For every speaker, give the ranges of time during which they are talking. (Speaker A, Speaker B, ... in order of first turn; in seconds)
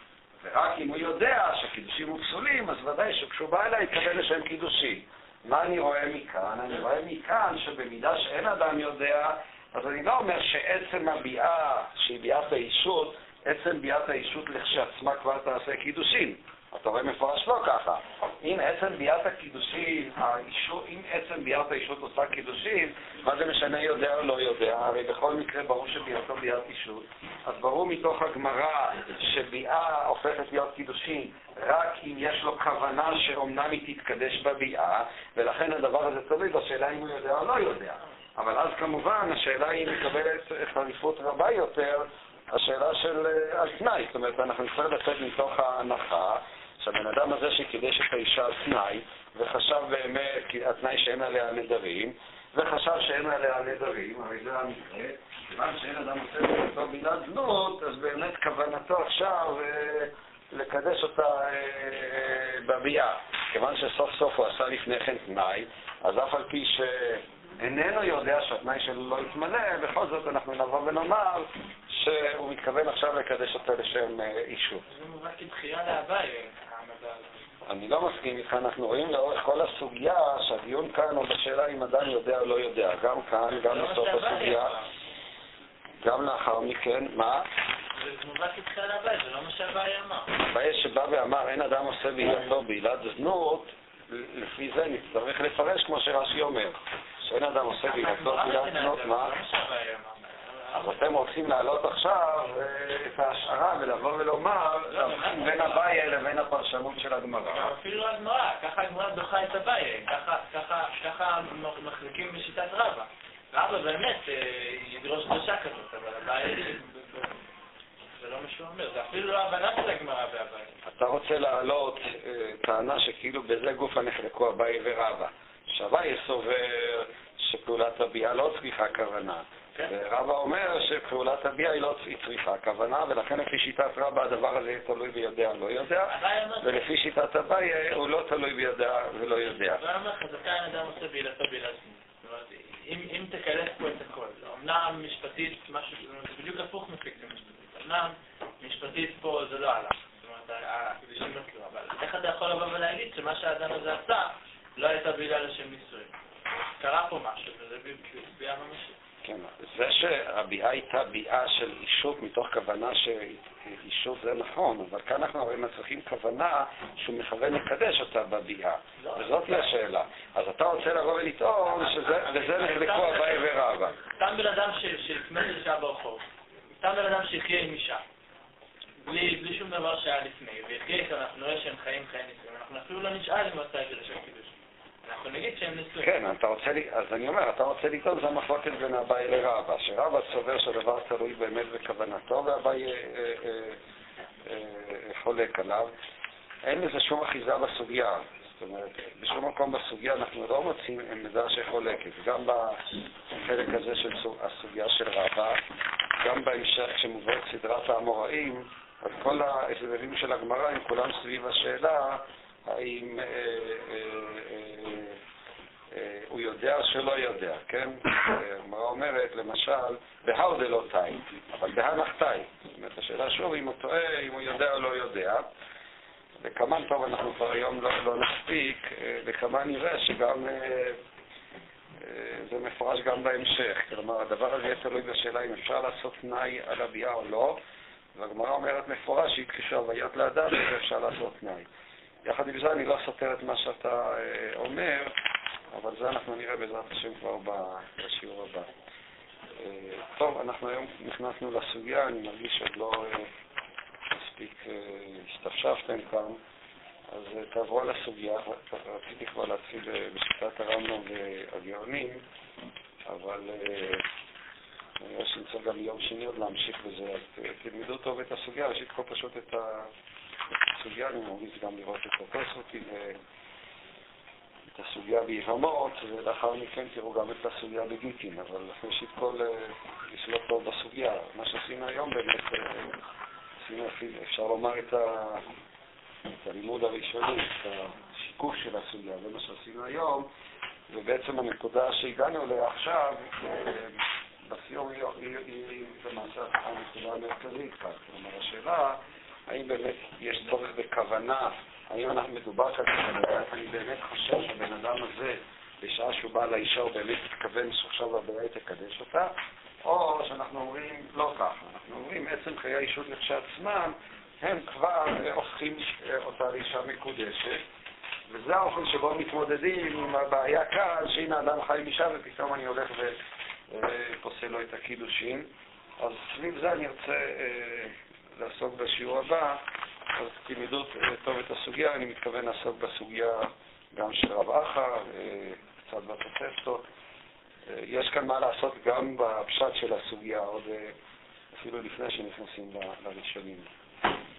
Speaker A: 0.4-74.8, 77.7-84.7, 86.0-87.5, 90.4-99.3, 100.7-107.7, 120.8-139.8, 159.2-173.9, 186.0-193.8, 194.4-195.9, 196.6-205.6, 206.2-215.2, 215.9-225.5, 226.4-231.0, 232.0-237.6, 238.1-241.7, 242.2-245.1, 245.7-248.7, 249.6-253.3, 254.1-256.4, 257.1-262.2, 263.1-264.0, 265.0-269.9, 270.7-273.2, 274.7-282.9, 283.6-285.4, 286.4-290.3, 290.9-309.3, 309.8-317.6, 318.3-323.1, 323.7-329.6, 330.1-336.8, 337.7-340.9, 341.5-343.7
Speaker B: 74.9-77.4, 83.6-84.9, 88.0-90.3, 97.8-101.2, 104.9-106.0, 107.5-117.3, 118.2-120.7, 136.1-136.9, 139.6-156.1, 156.8-158.9, 169.0-169.7, 171.7-176.2, 176.8-178.0, 179.0-184.5, 185.0-186.2